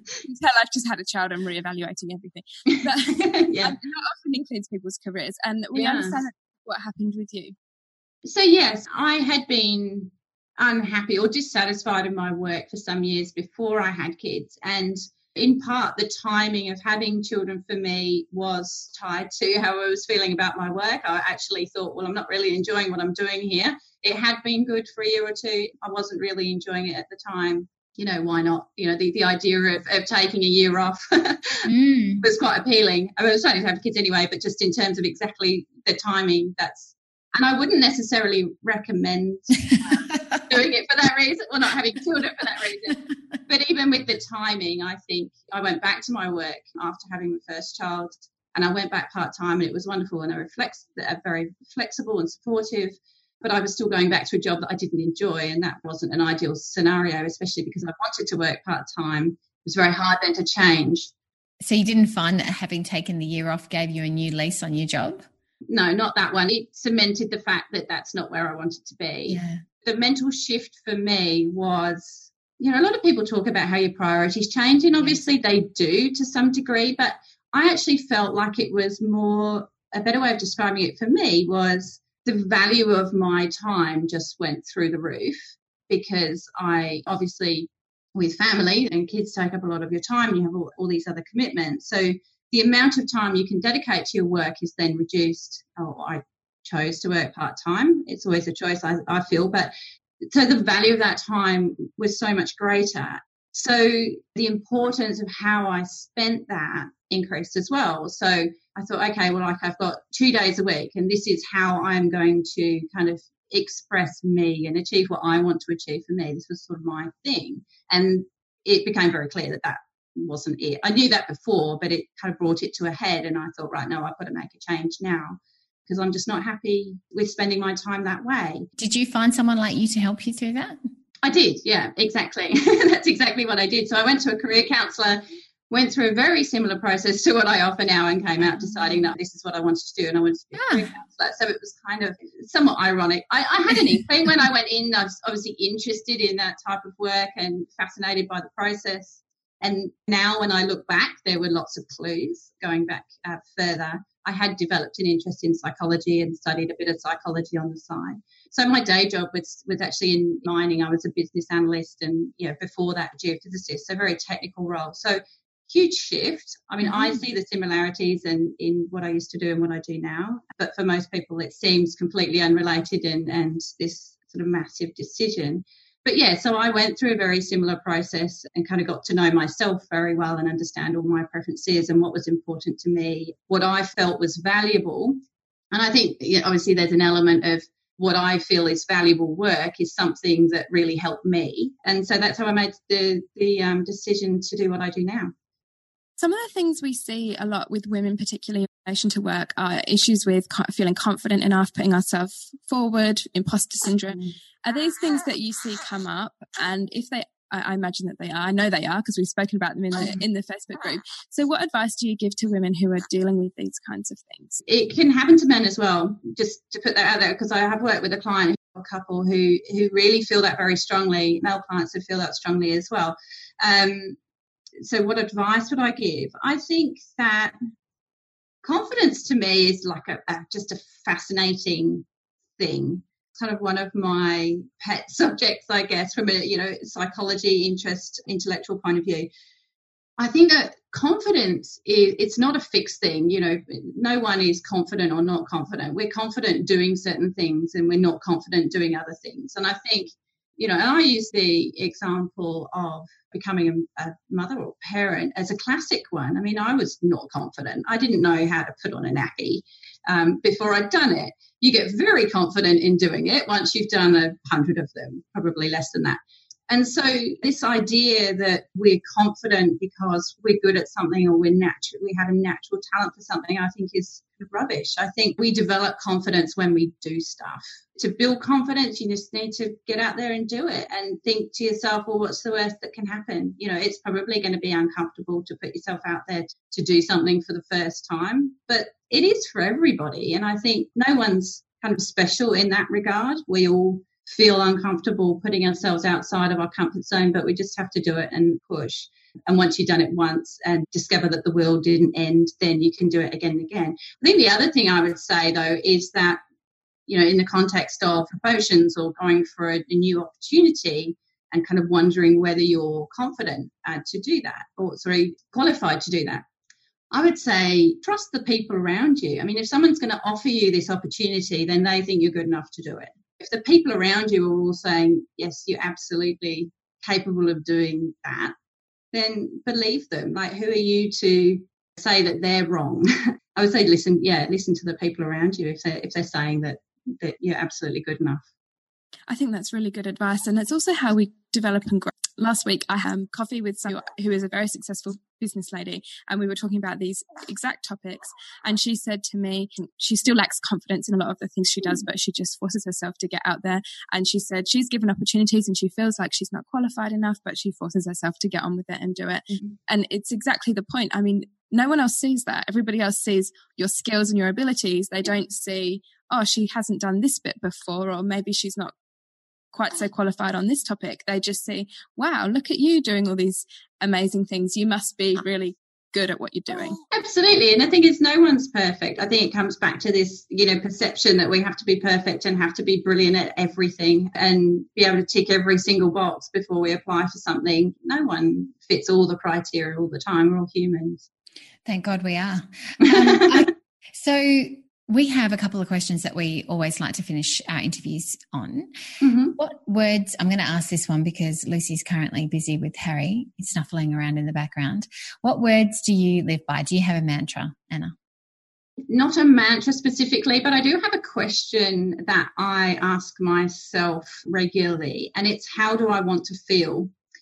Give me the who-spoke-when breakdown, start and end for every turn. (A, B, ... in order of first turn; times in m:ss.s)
0:00.2-0:07.6 A
0:02.7-0:03.7 B
0:05.7-0:06.2 B
0:08.2-0:31.7 B
0:31.6-0:32.2 C
0:32.2-1:01.1 B
1:01.6-1:05.2 C
1:05.7-1:39.7 B
1:09.3-1:09.6 C
1:40.3-2:08.7 B
2:08.8-2:10.8 C
2:11.2-3:05.2 B
2:20.5-2:20.9 C
2:46.9-2:47.2 C
3:05.7-3:15.3 B
3:16.2-3:34.6 A
3:34.7-3:44.2 B
3:44.8-3:47.6 B
3:48.6-3:52.0 B
3:52.6-3:59.3 B
4:00.2-5:06.4 B
5:07.1-5:16.4 B
5:17.1-5:28.5 B
5:29.1-5:38.4 B
5:39.3-6:08.9 A
6:09.7-6:17.0 A
6:17.1-6:31.2 B
6:31.8-6:38.9 C
6:33.0-6:33.6 B
6:39.2-6:39.6 B
6:39.6-6:48.1 C
6:49.1-6:57.1 B